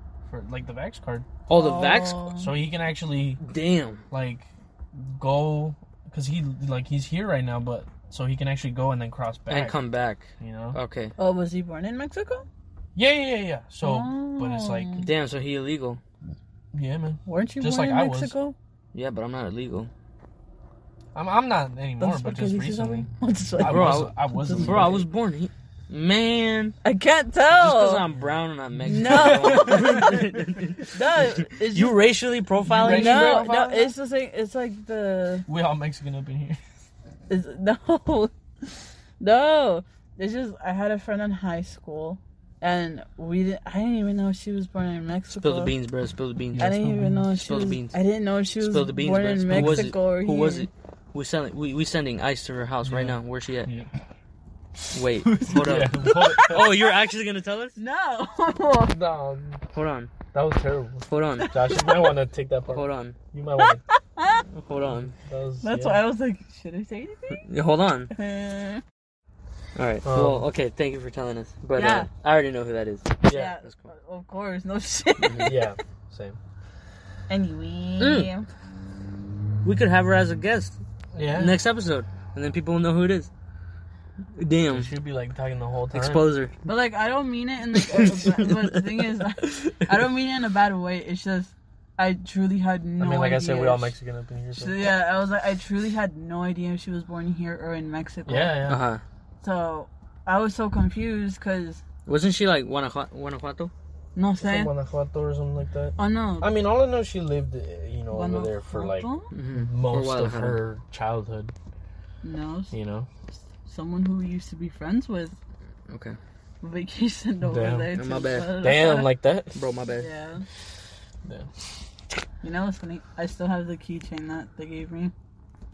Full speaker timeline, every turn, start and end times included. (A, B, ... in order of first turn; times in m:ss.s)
0:00.3-0:01.3 A
0:01.5-0:02.3 B
0:01.5-0:02.5 C
0:02.4-0:03.4 A
0:03.4-0:04.0 B
0:04.1-0:09.8 A
0:09.5-0:11.1 B
0:10.4-0:10.8 A
0:11.2-0:12.5 C
0:13.0-0:15.1 A
0:13.8-0:15.1 C
0:15.0-0:16.0 B
0:16.7-0:18.3 A
0:17.3-0:18.6 C
0:18.9-0:19.9 B
0:21.1-0:25.1 A
0:22.0-0:25.0 C
0:23.6-0:26.8 B
0:26.8-0:28.0 C
0:27.5-0:33.4 B
0:28.8-0:30.7 A
0:28.9-0:30.3 C
0:30.8-0:32.1 C
0:32.7-0:35.5 C
0:32.7-0:33.9 A
0:35.5-0:36.6 A
0:37.3-0:38.3 C
0:39.2-0:45.7 C
0:45.3-0:46.7 B
0:46.6-0:47.2 A
0:46.6-0:50.7 C
0:47.3-0:48.0 B
0:48.6-0:53.7 B
0:49.5-0:50.0 A
0:52.8-0:53.9 A
0:54.9-0:57.8 B
0:55.3-0:56.8 A
0:55.6-0:56.9 C
0:57.8-0:59.0 C
0:58.9-0:59.6 A
0:59.7-1:00.1 B
1:00.3-1:03.8 A
1:01.1-1:01.6 B
1:01.4-1:02.2 C
1:02.7-1:03.2 B
1:03.6-1:04.4 C
1:04.5-1:05.1 B
1:05.1-1:06.0 A
1:05.6-1:07.5 C
1:07.4-1:08.1 B
1:08.1-1:08.8 C
1:09.8-1:13.9 B
1:10.0-1:10.5 A
1:11.8-1:12.1 C
1:13.2-1:13.5 A
1:13.3-1:15.8 C
1:15.2-1:16.4 A
1:17.3-1:18.5 C
1:18.0-1:18.3 B
1:19.6-1:20.8 B
1:21.1-1:21.6 A
1:21.3-1:23.3 B
1:24.4-1:24.9 B
1:24.7-1:26.3 A
1:25.9-1:26.6 B
1:26.7-1:33.9 C
1:27.8-1:29.0 B
1:33.0-1:34.9 A
1:34.5-1:38.6 C
1:38.3-1:38.8 A
1:38.7-1:39.0 B
1:39.4-1:41.8 C
1:42.1-1:43.7 B
1:44.2-1:44.7 C
1:44.4-1:51.5 A
1:46.0-1:46.5 C
1:48.1-1:49.3 C
1:49.3-1:50.6 B
1:52.2-1:52.7 C
1:52.7-1:53.1 A
1:53.6-1:55.4 C
1:55.9-1:56.2 B
1:56.6-1:59.1 C
1:57.4-1:57.9 A
1:57.9-1:58.6 B
1:58.6-1:59.6 A
1:59.6-2:00.1 B
2:00.0-2:00.4 C
2:02.4-2:05.1 C